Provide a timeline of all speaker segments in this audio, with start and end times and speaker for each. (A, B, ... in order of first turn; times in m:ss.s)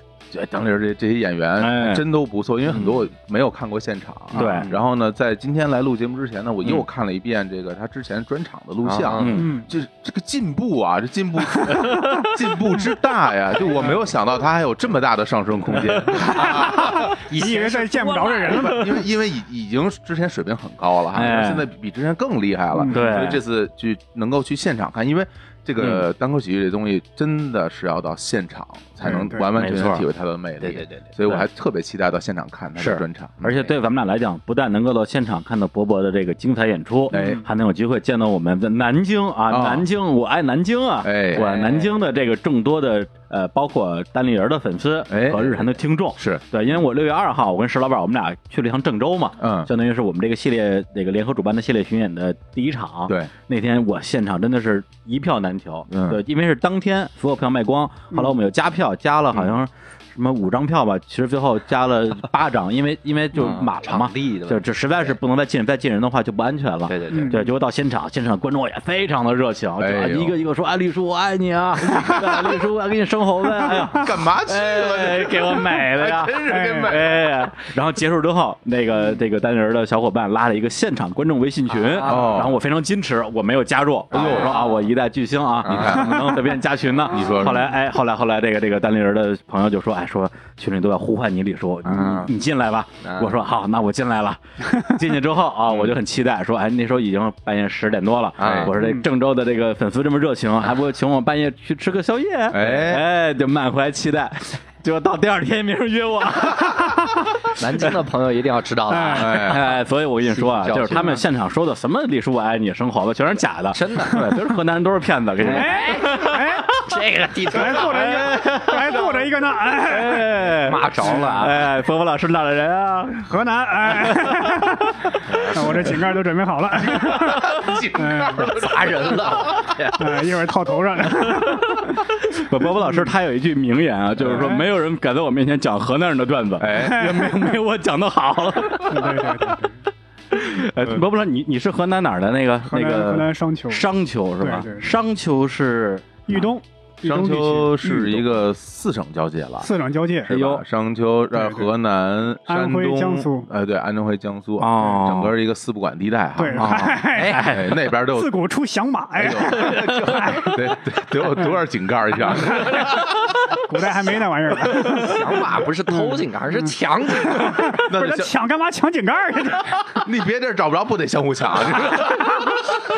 0:00.3-0:17.2 A
0:01.6-0:02.0 B
0:02.7-0:03.0 C
0:04.3-0:04.7 D
0:04.3-0:04.7 B
0:08.8-0:09.4 C
0:09.2-0:09.5 B
0:09.4-0:09.7 D
0:11.5-0:12.1 D
0:11.7-0:12.3 B
0:13.7-0:14.0 D
0:16.2-0:19.0 D
0:16.2-0:18.8 C
0:18.5-0:33.6 A
0:21.1-0:21.7 B
0:22.7-0:23.2 D
0:22.9-0:23.4 B
0:25.8-0:26.1 B
0:29.1-0:30.1 B
0:30.6-0:31.4 C
0:32.8-1:48.0 B
0:37.1-0:37.4 A
0:37.1-0:37.4 D
0:39.5-0:39.8 A
0:41.0-0:41.6 A
0:41.4-0:41.9 C
0:45.1-0:45.6 A
0:46.2-0:46.4 A
0:49.4-0:49.7 A
0:55.9-0:56.2 A
1:03.3-1:05.1 C
1:06.9-1:07.5 C
1:07.1-1:07.4 D
1:09.8-1:10.4 A
1:13.6-1:14.0 D
1:14.0-1:17.4 A
1:16.4-1:17.0 D
1:21.8-1:22.5 C
1:22.0-1:22.6 A
1:24.1-1:24.9 C
1:24.1-1:24.6 A
1:25.6-1:26.4 C
1:25.6-1:26.4 A
1:27.1-1:27.7 A
1:31.8-1:32.3 C
1:33.0-1:33.4 C
1:38.4-1:38.7 C
1:38.4-1:38.7 A
1:38.8-1:39.1 D
1:42.5-1:43.0 A
1:47.6-1:51.2 C
1:48.9-1:49.4 D
1:49.2-1:49.6 A
1:49.4-1:56.9 B
1:53.7-1:54.3 C
1:55.4-1:56.2 C
1:55.4-1:56.7 D
1:56.8-1:58.2 C
1:57.5-2:00.4 D
1:57.6-2:03.3 B
2:00.5-2:01.6 C
2:01.0-2:01.5 D
2:03.2-2:08.6 D
2:03.8-2:04.9 B
2:05.3-2:06.0 C
2:06.9-2:09.7 A
2:08.5-2:10.0 C
2:10.0-2:12.0 D
2:11.1-2:19.5 B
2:12.6-2:13.1 D
2:14.3-2:14.7 D
2:16.6-2:17.2 A
2:16.8-2:17.6 D
2:18.9-2:19.8 D
2:20.3-2:26.5 B
2:20.8-2:21.0 D
2:22.7-2:23.9 D
2:24.4-2:24.9 D
2:26.3-2:28.2 D
2:27.0-2:29.7 A
2:29.6-2:30.4 D
2:30.3-2:36.9 A
2:30.3-2:30.6 B
2:31.3-2:31.7 D
2:32.5-2:33.5 D
2:34.6-2:35.3 B
2:36.4-2:37.4 D
2:36.5-2:37.9 B
2:37.1-2:37.4 C
2:37.4-2:38.3 A
2:38.1-2:40.8 D
2:39.2-2:43.3 A
2:42.3-2:50.0 D
2:44.7-2:47.7 C
2:47.7-2:48.3 A
2:50.0-2:52.5 A
2:51.8-2:52.6 C